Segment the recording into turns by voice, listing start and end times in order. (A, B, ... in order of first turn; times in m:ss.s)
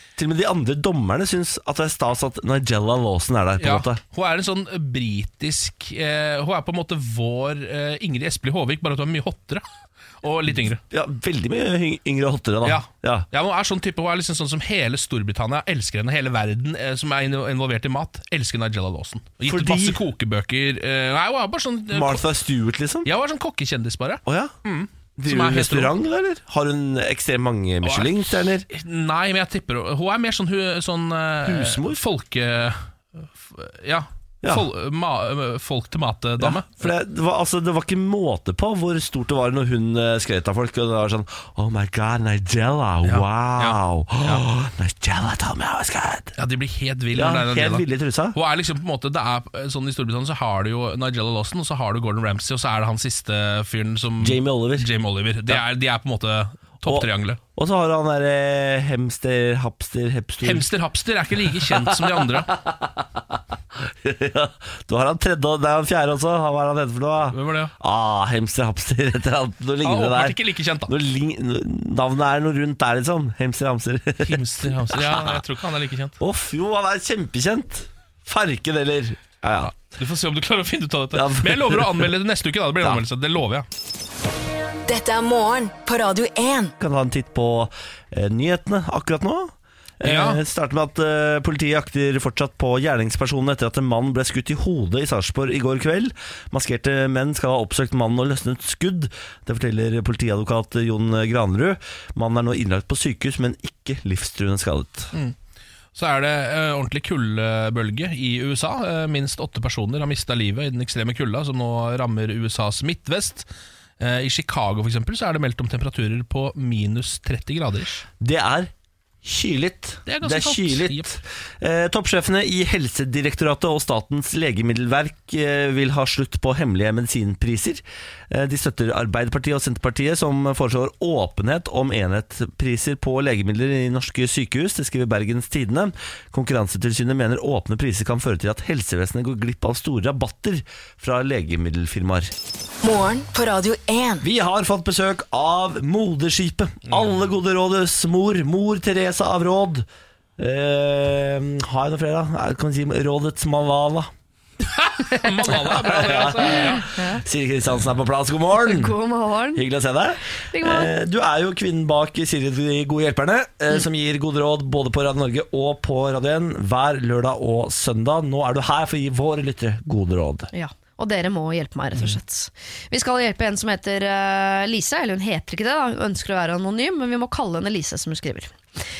0:00.2-0:04.0 A
0:03.6-0:09.6 B
0:10.2-0:10.8 B
0:10.8-0:13.3 A
0:12.6-0:22.2 B
0:19.5-0:20.0 A
0:21.9-0:23.1 A
0:23.0-0:25.9 B
0:24.3-0:24.5 A
0:25.2-0:28.7 A
0:27.8-0:36.9 B
0:31.4-0:32.0 A
0:36.4-0:46.4 A
0:43.0-0:44.4 B
0:46.4-0:57.4 B
0:47.1-0:48.4 A
0:54.2-0:54.9 A
0:56.9-1:00.7 A
1:00.4-1:02.5 B
1:01.6-1:03.2 A
1:03.8-1:15.4 A
1:07.3-1:07.7 B
1:09.8-1:10.9 B
1:14.2-1:16.2 B
1:16.2-1:19.8 A
1:19.8-1:23.7 B
1:21.1-1:22.1 A
1:24.9-1:26.7 C
1:26.8-1:45.1 A
1:30.0-1:30.4 B
1:45.9-1:53.5 B
1:54.0-1:58.0 B
1:58.2-1:58.7 A
1:59.2-2:22.3 A
2:00.1-2:01.2 B
2:22.8-2:24.2 C
2:24.2-2:29.8 A
2:26.9-2:27.2 B
2:30.4-2:34.1 A
2:34.7-2:36.9 B
2:35.4-2:38.9 A
2:36.8-2:37.2 D
2:38.6-2:39.6 D
2:39.5-2:50.5 A
2:40.5-2:40.9 D
2:50.5-2:58.5 D